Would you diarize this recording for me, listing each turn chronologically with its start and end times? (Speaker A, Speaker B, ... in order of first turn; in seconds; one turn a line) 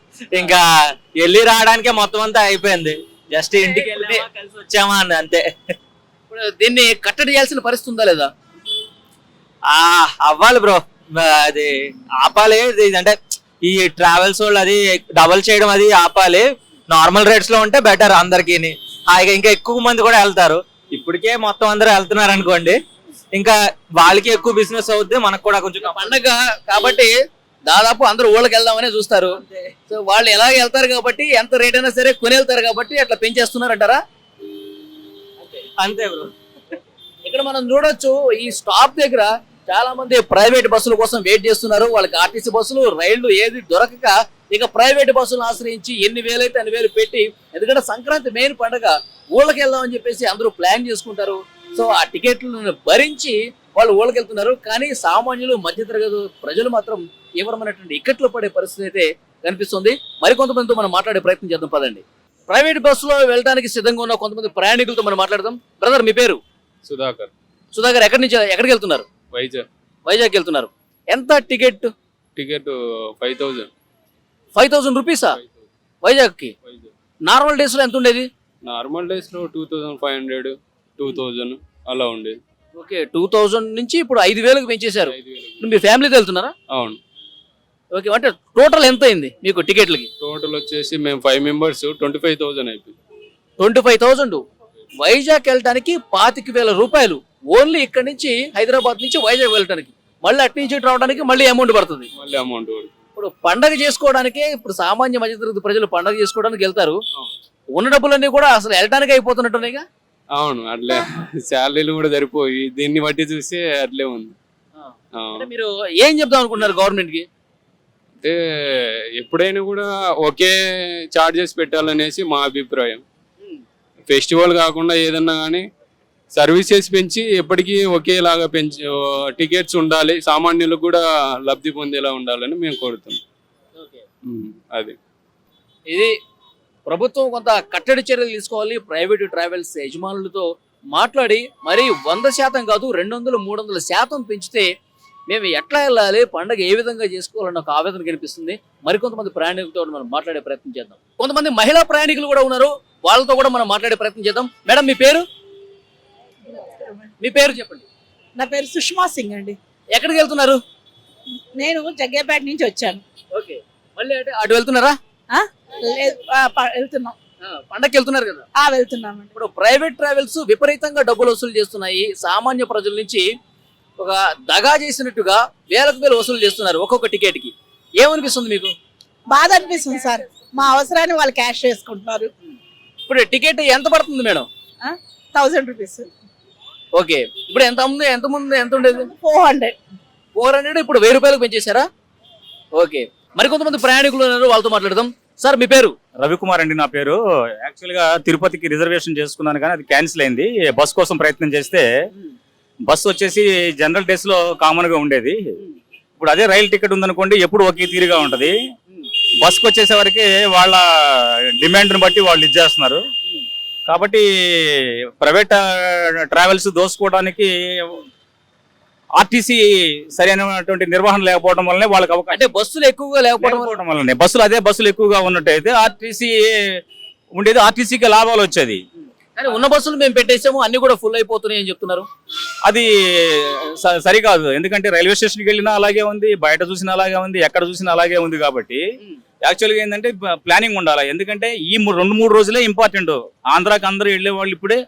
Speaker A: 0.3-0.7
Speaker A: 1.2-5.5
Speaker B: 3.6-4.2
Speaker B: 6.3-8.3
Speaker A: 9.7-22.8
Speaker A: 23.3-26.1
Speaker B: 25.8-27.1
Speaker B: 27.7-29.4
Speaker B: 29.9-34.0
Speaker A: 35.8-36.3
Speaker B: 37.2-66.4
Speaker C: 66.9-67.3
Speaker B: 67.7-69.0
Speaker C: 69.3-69.7
Speaker B: 70.1-71.9
Speaker C: 72.4-73.7
Speaker B: 74.5-75.4
Speaker B: 76.0-76.5
Speaker C: 76.6-76.9
Speaker B: 77.3-78.3
Speaker C: 78.7-82.4
Speaker B: 82.8-86.5
Speaker C: 85.1-85.6
Speaker C: 86.7-87.0
Speaker B: 87.9-90.1
Speaker C: 90.2-93.0
Speaker B: 93.6-94.4
Speaker B: 95.0-102.1
Speaker C: 102.2-102.9
Speaker B: 103.2-107.0
Speaker B: 107.8-109.8
Speaker C: 110.4-114.3
Speaker B: 114.8-117.3
Speaker C: 115.2-115.5
Speaker C: 119.2-120.5
Speaker C: 121.1-123.0
Speaker C: 124.0-125.7
Speaker C: 126.3-133.2
Speaker B: 133.8-134.0
Speaker C: 134.3-135.0
Speaker B: 135.9-136.2
Speaker B: 136.9-144.7
Speaker B: 145.3-155.3
Speaker D: 156.5-157.1
Speaker B: 157.2-157.9
Speaker D: 158.4-159.6
Speaker B: 159.9-160.6
Speaker D: 161.6-163.0
Speaker B: 163.3-165.0
Speaker D: 165.3-167.2
Speaker B: 167.5-168.5
Speaker D: 168.6-169.3
Speaker B: 169.4-173.2
Speaker B: 174.0-178.7
Speaker D: 179.3-182.3
Speaker B: 183.1-184.5
Speaker D: 184.8-186.1
Speaker B: 187.0-189.1
Speaker D: 188.9-189.8
Speaker B: 190.4-191.9
Speaker B: 192.8-195.9
Speaker E: 196.2-201.9
Speaker E: 202.9-205.4
Speaker E: 206.2-208.5
Speaker E: 209.4-210.8
Speaker E: 211.6-213.0
Speaker E: 213.9-214.2
Speaker E: 215.2-218.0
Speaker E: 219.2-219.6
Speaker E: 220.1-222.5
Speaker B: 222.3-223.7
Speaker E: 223.4-226.3
Speaker E: 227.4-228.8
Speaker B: 229.4-232.1
Speaker E: 232.7-238.8
Speaker E: 239.4-244.8